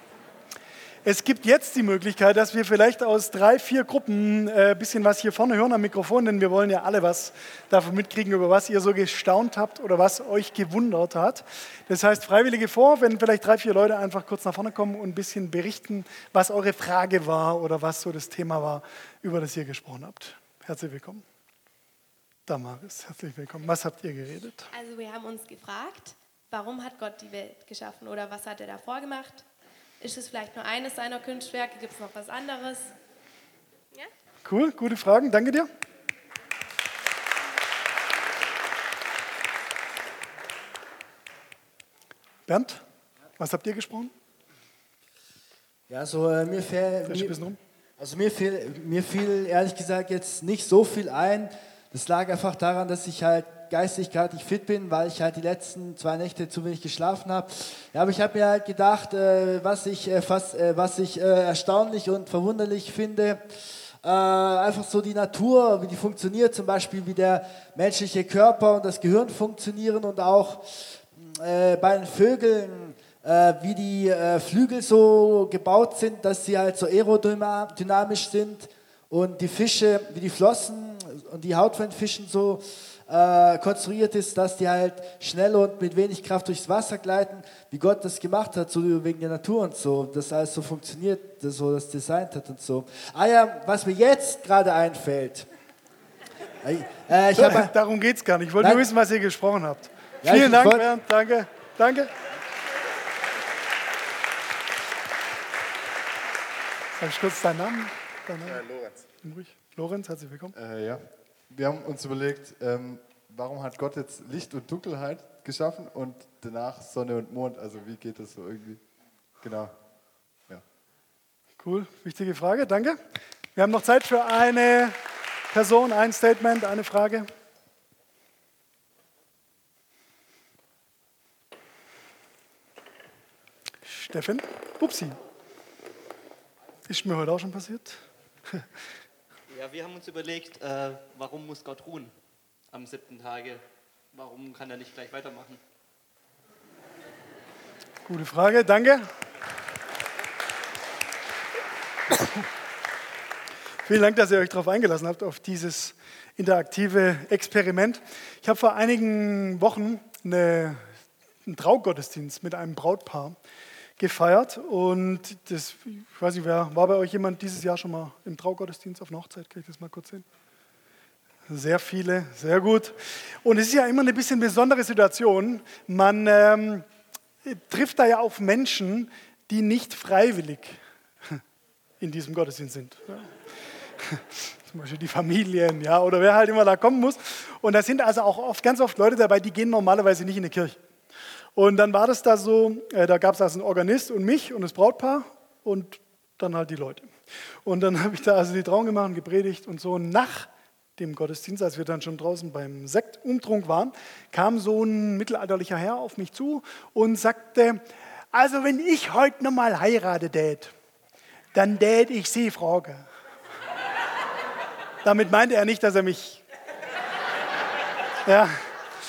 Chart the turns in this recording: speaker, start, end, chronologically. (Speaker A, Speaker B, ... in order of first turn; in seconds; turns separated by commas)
Speaker A: 1.1-21.2, Speaker A: 22.5-24.7, Speaker B: 24.7-29.5, Speaker B: 30.0-32.9, Speaker A: 34.5-35.7, Speaker A: 42.5-42.8, Speaker A: 43.4-44.1, Speaker C: 45.9-47.4, Speaker A: 47.1-47.6, Speaker C: 48.0-95.5, Speaker C: 96.6-97.7, Speaker A: 97.3-102.1, Speaker C: 98.6-98.8, Speaker C: 100.2-100.9, Speaker A: 107.0-110.5, Speaker D: 110.5-118.8, Speaker D: 119.4-119.8, Speaker A: 121.6-123.0, Speaker A: 123.5-125.0, Speaker A: 125.5-127.3, Speaker A: 133.9-135.2, Speaker A: 136.9-138.0, Speaker E: 139.5-142.1, Speaker E: 142.7-143.6, Speaker E: 144.1-145.6, Speaker A: 148.1-149.1, Speaker A: 153.9-160.9, Speaker A: 161.5-163.4, Speaker A: 164.0-170.3, Speaker A: 171.5-176.9, Speaker A: 177.4-181.4, Speaker A: 182.0-183.3, Speaker A: 184.0-190.8, Speaker A: 191.6-197.1, Speaker A: 197.7-210.7, Speaker A: 211.5-213.1, Speaker A: 215.0-216.4, Speaker A: 218.2-218.7